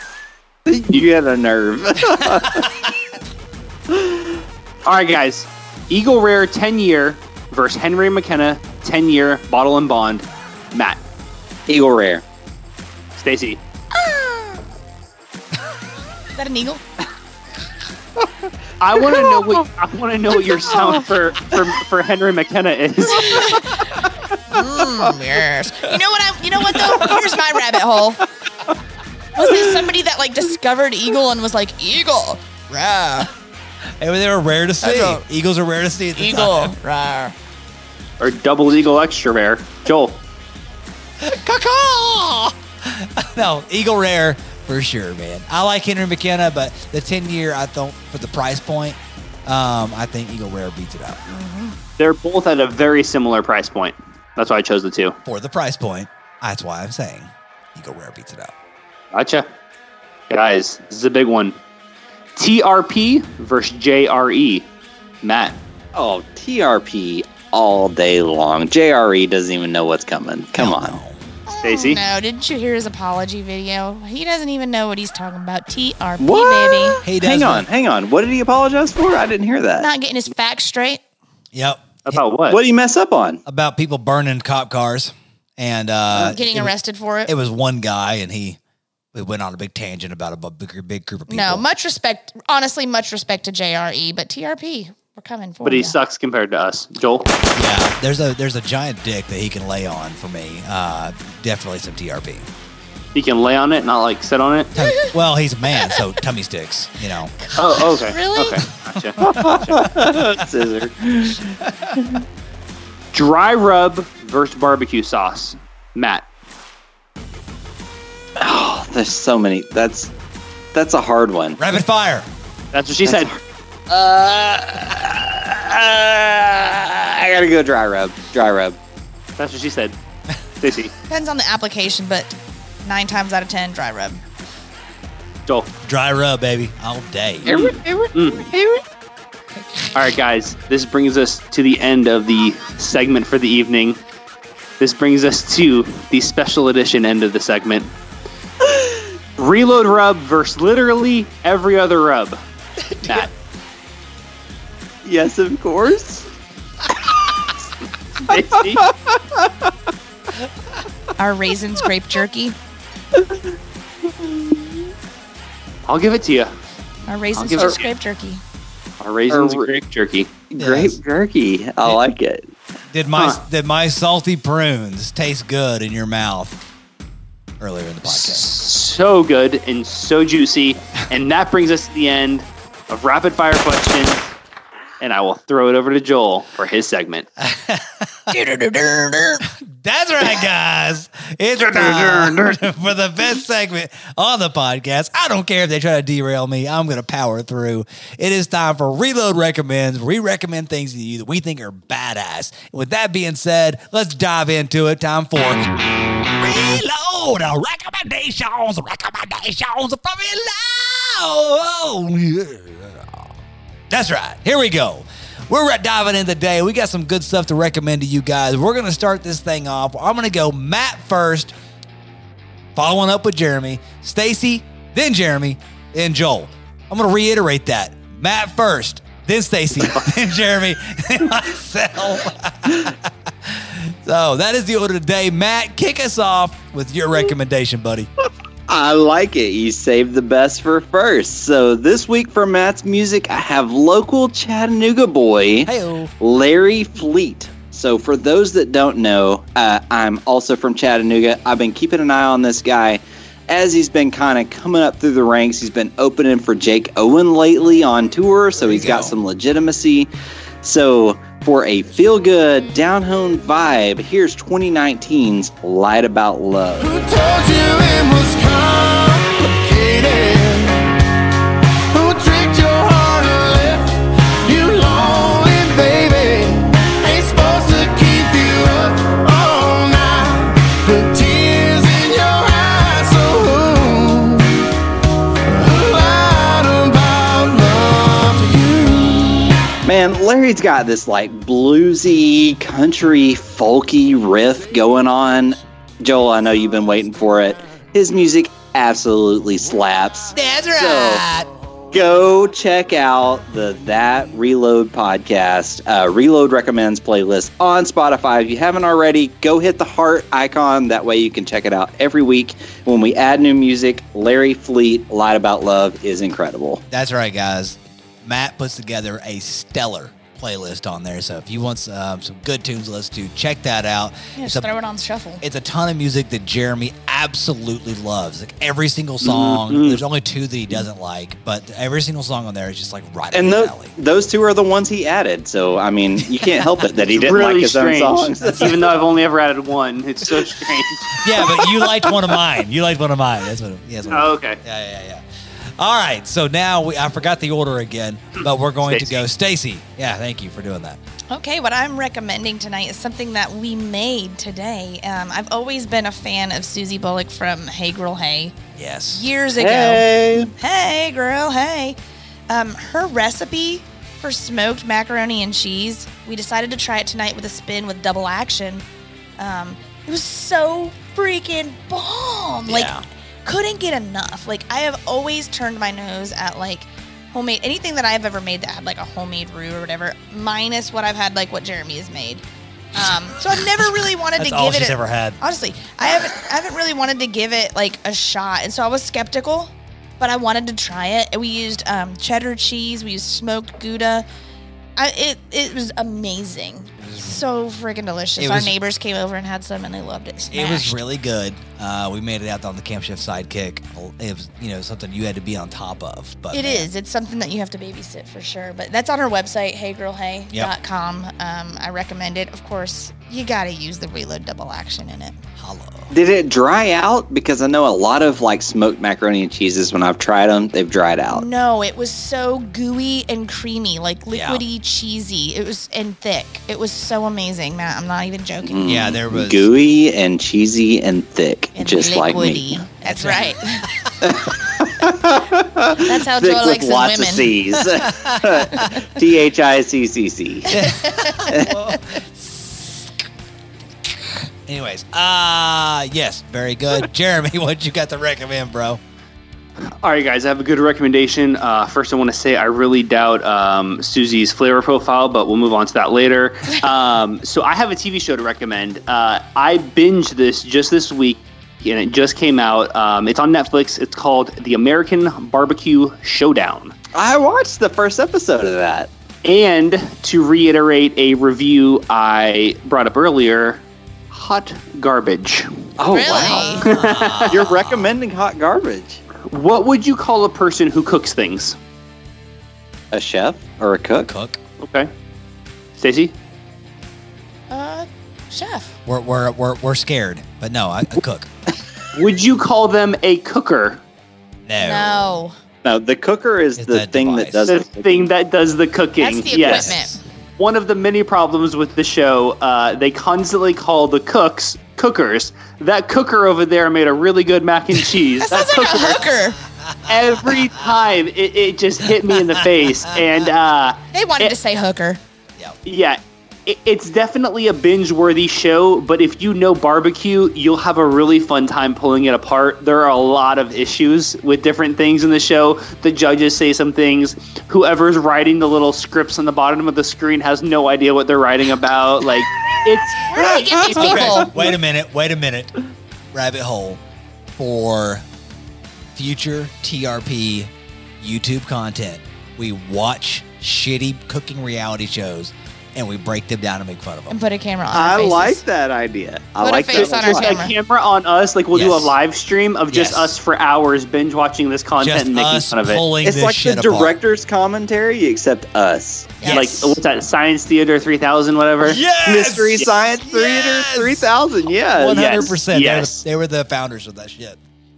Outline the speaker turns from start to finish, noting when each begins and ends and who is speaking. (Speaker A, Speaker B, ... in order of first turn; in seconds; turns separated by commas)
Speaker A: 0.7-2.7, Speaker A: 3.9-4.4, Speaker B: 4.8-11.0, Speaker A: 11.7-12.2, Speaker B: 13.2-13.6, Speaker C: 13.9-14.6, Speaker C: 16.4-16.8, Speaker B: 18.8-23.6, Speaker A: 18.9-19.3, Speaker C: 23.1-23.9, Speaker C: 24.5-28.2, Speaker C: 29.4-33.3, Speaker D: 34.0-36.8, Speaker C: 34.8-35.2, Speaker C: 36.1-37.3, Speaker B: 38.2-40.2, Speaker D: 41.2-51.2, Speaker C: 51.3-51.8, Speaker B: 52.0-55.1, Speaker D: 55.2-58.5, Speaker B: 59.1-59.5, Speaker B: 60.3-61.5, Speaker B: 62.4-64.7, Speaker B: 65.2-65.6, Speaker A: 66.0-71.0, Speaker D: 70.6-71.2, Speaker C: 71.5-77.0, Speaker B: 71.6-72.0, Speaker A: 76.2-79.9, Speaker D: 77.0-77.7, Speaker C: 79.8-81.0, Speaker D: 81.5-82.1, Speaker B: 82.0-82.6, Speaker A: 82.5-83.4, Speaker D: 83.5-86.7, Speaker C: 86.2-87.3, Speaker D: 87.3-88.6, Speaker D: 89.1-91.7, Speaker C: 91.3-96.0, Speaker B: 95.6-97.3, Speaker D: 97.5-102.5, Speaker B: 103.2-104.7, Speaker D: 104.7-107.3, Speaker C: 104.8-105.1, Speaker C: 107.5-108.6, Speaker B: 107.6-109.8, Speaker D: 109.0-110.4, Speaker A: 109.2-112.2, Speaker D: 111.7-112.0, Speaker B: 113.1-116.3, Speaker A: 118.4-120.1, Speaker A: 120.7-121.6, Speaker D: 121.6-122.3, Speaker B: 122.7-123.3, Speaker A: 123.0-128.8, Speaker B: 129.4-129.9, Speaker B: 130.6-130.9, Speaker C: 131.1-134.2, Speaker D: 135.8-137.5, Speaker B: 137.4-138.5, Speaker A: 137.4-138.8, Speaker C: 139.6-139.9, Speaker B: 139.9-144.0, Speaker B: 144.8-147.9, Speaker B: 149.4-152.4, Speaker D: 152.9-153.3, Speaker B: 153.0-153.3, Speaker A: 155.0-156.3, Speaker B: 158.2-158.9, Speaker A: 158.7-159.5, Speaker C: 161.2-162.6, Speaker A: 163.2-163.4, Speaker A: 164.2-164.7, Speaker B: 165.9-166.5, Speaker C: 167.1-168.4, Speaker B: 167.4-167.9, Speaker B: 169.0-170.3, Speaker A: 169.3-169.7, Speaker A: 170.5-172.5, Speaker D: 170.6-171.0, Speaker D: 172.9-176.6, Speaker D: 177.6-178.5, Speaker B: 178.1-184.2, Speaker B: 185.0-187.3, Speaker D: 187.4-188.4, Speaker C: 188.3-189.4, Speaker D: 189.5-213.3, Speaker B: 191.7-192.6, Speaker D: 213.9-221.5, Speaker D: 222.8-238.1, Speaker A: 238.7-260.1, Speaker D: 245.6-246.1, Speaker D: 258.6-259.2, Speaker A: 260.6-266.9, Speaker E: 266.8-271.0, Speaker E: 271.9-284.7, Speaker E: 285.5-289.6, Speaker A: 289.8-301.2, Speaker D: 300.3-301.5, Speaker A: 301.9-316.8, Speaker D: 316.9-324.8, Speaker C: 324.4-325.4, Speaker D: 325.4-333.9, Speaker B: 329.2-330.0, Speaker A: 333.3-338.9, Speaker B: 337.1-341.6, Speaker D: 338.4-338.8, Speaker D: 341.1-345.2, Speaker B: 344.1-344.6, Speaker D: 345.8-351.0, Speaker B: 348.4-349.2, Speaker C: 351.3-358.5, Speaker D: 358.7-359.3, Speaker C: 359.1-362.0, Speaker A: 359.5-360.5, Speaker C: 362.5-368.8, Speaker C: 369.4-372.9, Speaker D: 372.6-373.0, Speaker C: 373.4-382.4, Speaker C: 382.9-394.3, Speaker D: 383.5-385.4, Speaker C: 394.9-401.0, Speaker D: 397.0-397.4, Speaker D: 398.4-398.7, Speaker D: 400.5-406.9, Speaker C: 406.5-415.4, Speaker D: 415.6-416.1, Speaker A: 416.1-421.4, Speaker C: 421.3-428.9, Speaker D: 424.3-424.6, Speaker A: 428.6-432.8, Speaker D: 428.8-429.7, Speaker C: 431.8-433.9, Speaker D: 433.0-434.3, Speaker A: 434.2-440.8, Speaker C: 436.0-437.6, Speaker D: 437.9-438.8, Speaker C: 438.7-439.0, Speaker D: 440.7-443.2, Speaker C: 440.7-441.8, Speaker A: 441.5-441.7, Speaker D: 444.1-449.0, Speaker B: 450.0-466.9, Speaker A: 467.1-469.1, Speaker B: 469.4-475.7, Speaker A: 476.0-479.2, Speaker C: 476.1-476.9, Speaker B: 476.8-477.6, Speaker D: 476.9-478.1, Speaker B: 479.5-481.8, Speaker A: 483.1-484.3, Speaker D: 484.3-484.6, Speaker B: 484.8-485.1, Speaker B: 486.0-486.3, Speaker C: 487.7-488.9, Speaker D: 489.1-491.5, Speaker B: 492.1-494.0, Speaker D: 494.6-495.3, Speaker C: 494.8-495.6, Speaker A: 495.8-498.3, Speaker D: 496.8-497.7, Speaker B: 497.7-499.9, Speaker C: 499.2-500.2, Speaker D: 499.6-500.1, Speaker B: 500.6-509.3, Speaker C: 508.4-509.6, Speaker D: 509.9-510.7, Speaker B: 510.1-514.5, Speaker D: 512.3-513.2, Speaker C: 514.1-515.2, Speaker B: 515.9-534.3, Speaker A: 533.2-534.6, Speaker C: 533.3-534.5, Speaker D: 533.9-535.7, Speaker D: 536.3-537.0, Speaker D: 537.6-538.2, Speaker D: 539.1-547.4, Speaker C: 547.3-548.6, Speaker A: 547.9-550.6, Speaker C: 549.6-550.7, Speaker B: 549.9-556.0, Speaker D: 551.7-552.1, Speaker D: 552.9-553.4, Speaker D: 555.0-557.1, Speaker A: 556.2-559.6, Speaker C: 559.4-559.9, Speaker B: 559.5-562.0, Speaker D: 561.8-564.3, Speaker A: 562.2-565.6, Speaker D: 565.0-567.6, Speaker B: 565.1-566.2